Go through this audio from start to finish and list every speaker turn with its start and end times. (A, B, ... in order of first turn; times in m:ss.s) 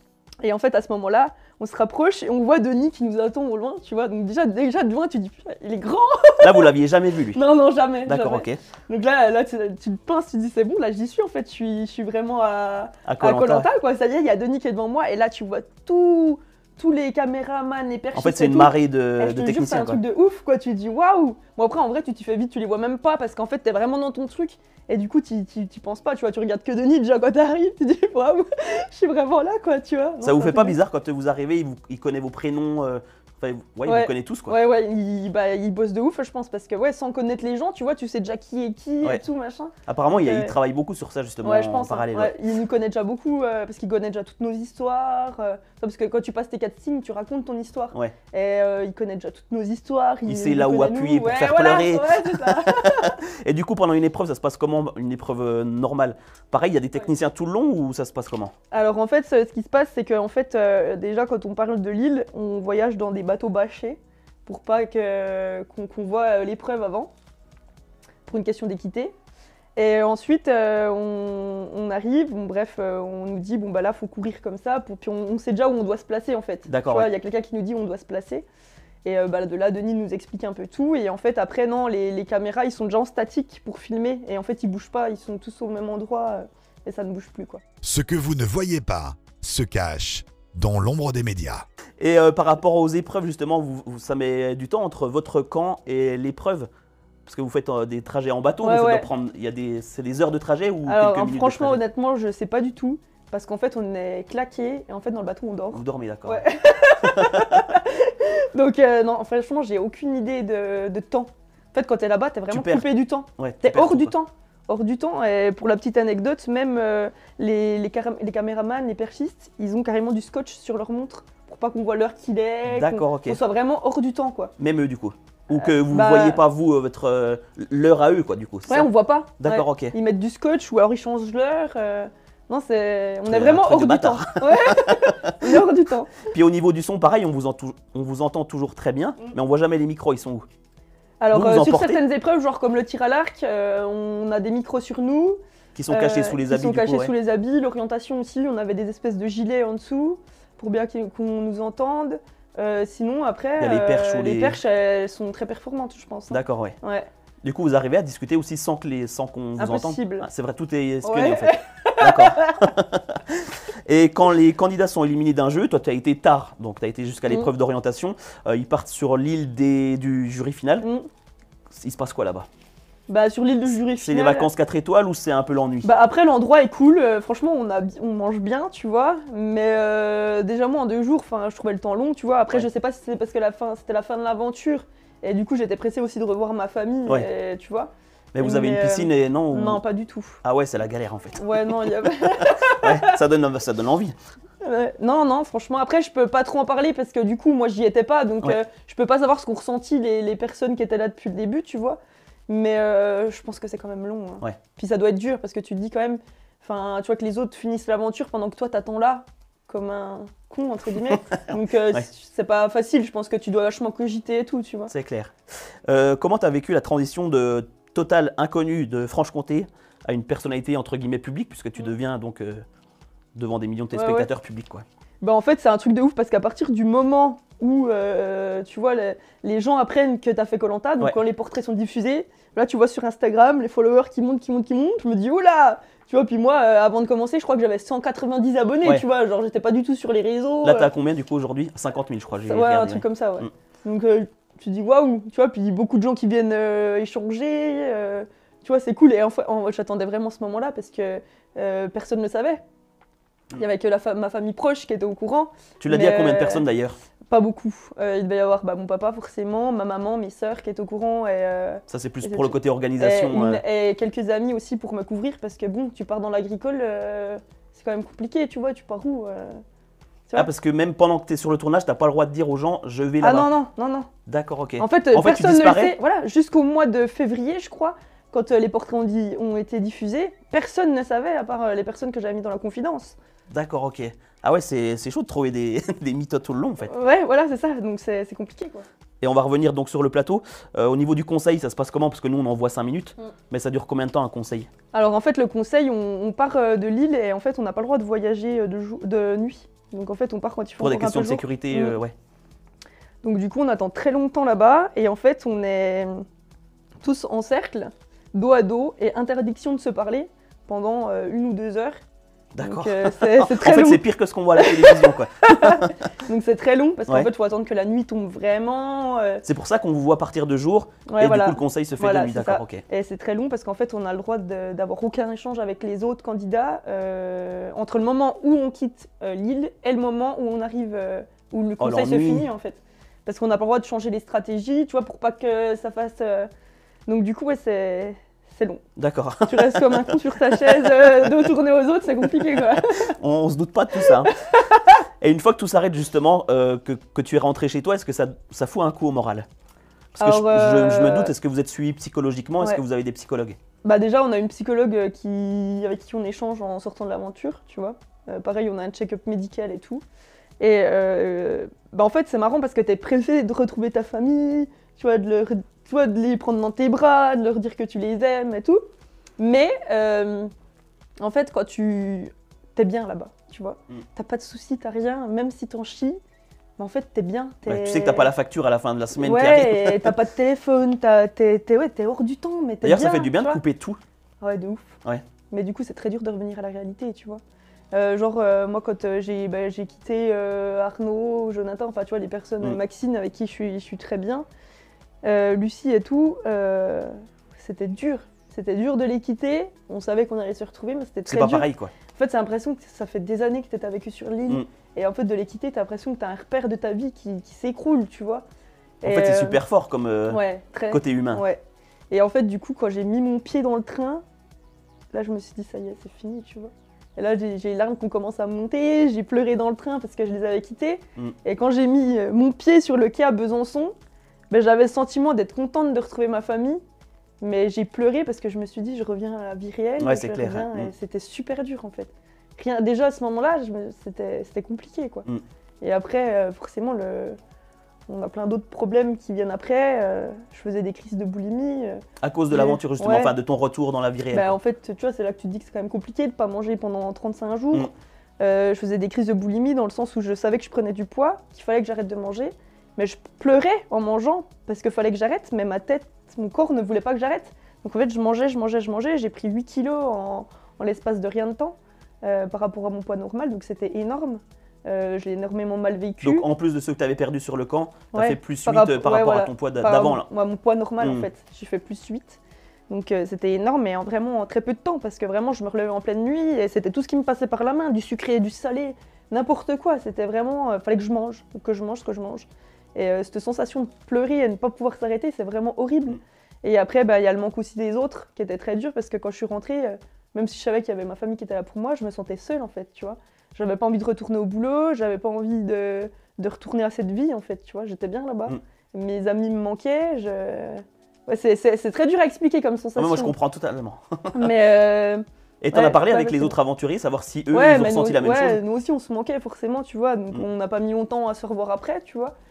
0:00.4-0:06.7 A
0:06.4-0:07.4 B
0:07.3-0:30.8 A
0:08.0-0:08.6 B
0:13.0-0:13.7 B
0:18.1-0:20.0 B
0:30.2-0:34.6 B
0:33.8-0:40.5 A
0:39.8-0:42.3 B
0:41.4-0:53.2 A
0:50.2-0:58.5 B
0:58.7-1:07.1 A
1:08.2-1:09.1 A
1:09.8-1:18.4 A
1:16.7-1:17.1 B
1:19.0-1:27.6 A
1:27.8-1:31.6 C
1:32.0-1:36.7 B
1:37.2-1:41.8 B
1:38.6-1:39.1 A
1:40.9-2:04.5 A
1:45.7-1:46.4 B
1:47.0-1:47.7 B
1:52.5-1:52.8 B
1:53.4-1:54.1 B
2:02.7-2:03.4 B
2:04.6-2:09.9 B
2:05.5-2:06.4 A
2:08.7-2:16.3 A
2:13.3-2:15.6 B
2:16.3-2:20.4 B
2:21.2-2:25.4 A
2:21.3-2:22.0 B
2:25.7-2:27.1 B
2:25.9-2:37.1 A
2:33.6-2:34.6 B
2:36.3-2:36.8 B
2:37.4-2:50.8 B
2:39.6-2:40.3 A
2:41.0-2:42.6 A
2:50.8-2:51.1 A
2:51.7-2:52.5 B
2:53.1-2:54.5 A
2:54.0-2:55.9 B
2:55.8-3:10.4 A
3:08.3-3:09.8 B
3:10.4-3:14.2 B
3:11.4-3:13.2 A
3:14.6-3:34.9 A
3:34.9-3:35.3 B
3:35.9-3:42.6 B
3:43.3-3:44.8 B
3:43.9-3:44.3 A
3:45.2-4:00.9 A
4:00.6-4:03.5 B
4:02.4-4:12.6 A
4:13.6-4:16.6 A
4:15.8-4:17.0 B
4:17.3-4:29.6 A
4:21.9-4:23.6 B
4:30.3-4:33.5 B
4:33.2-4:34.1 A
4:34.2-4:35.9 B
4:34.8-4:43.2 A
4:43.5-4:46.9 B
4:46.9-4:48.8 A
4:49.2-4:54.7 B
4:54.9-5:02.0 A
5:00.8-5:02.1 B
5:03.2-5:06.2 A
5:07.0-5:12.0 A
5:12.5-5:15.9 B
5:12.6-5:14.0 A
5:14.6-5:19.4 A
5:19.4-5:22.8 B
5:21.1-5:36.5 A
5:31.8-5:32.5 B
5:37.1-5:38.8 A
5:39.0-5:41.3 B
5:39.4-5:43.1 A
5:42.7-5:44.3 B
5:44.0-5:44.8 A
5:45.2-5:49.4 B
5:50.1-5:53.6 B
5:50.2-5:51.3 A
5:53.8-6:00.0 A
6:00.6-6:08.8 A
6:09.4-6:10.5 A
6:11.2-6:16.2 A
6:16.8-6:18.3 A
6:17.7-6:20.1 B
6:19.2-6:23.6 A
6:22.8-6:24.0 B
6:24.4-6:25.0 A
6:25.5-6:27.4 A
6:27.9-6:34.4 A
6:35.2-6:48.4 A
6:41.3-6:41.9 B
6:49.0-6:49.6 A
6:49.0-6:51.4 B
6:50.3-6:54.2 A
6:55.1-7:03.9 A
7:04.5-7:06.8 A
7:07.4-7:15.3 A
7:10.0-7:10.9 B
7:15.8-7:17.4 A
7:18.1-7:23.3 A
7:22.2-7:24.6 B
7:24.3-7:27.9 A
7:28.4-7:46.4 A
7:46.2-7:50.2 B
7:48.1-8:23.3 A
7:51.0-7:51.2 B
8:23.0-8:24.5 B
8:24.3-8:26.5 A
8:25.6-8:28.6 B
8:27.5-8:32.3 A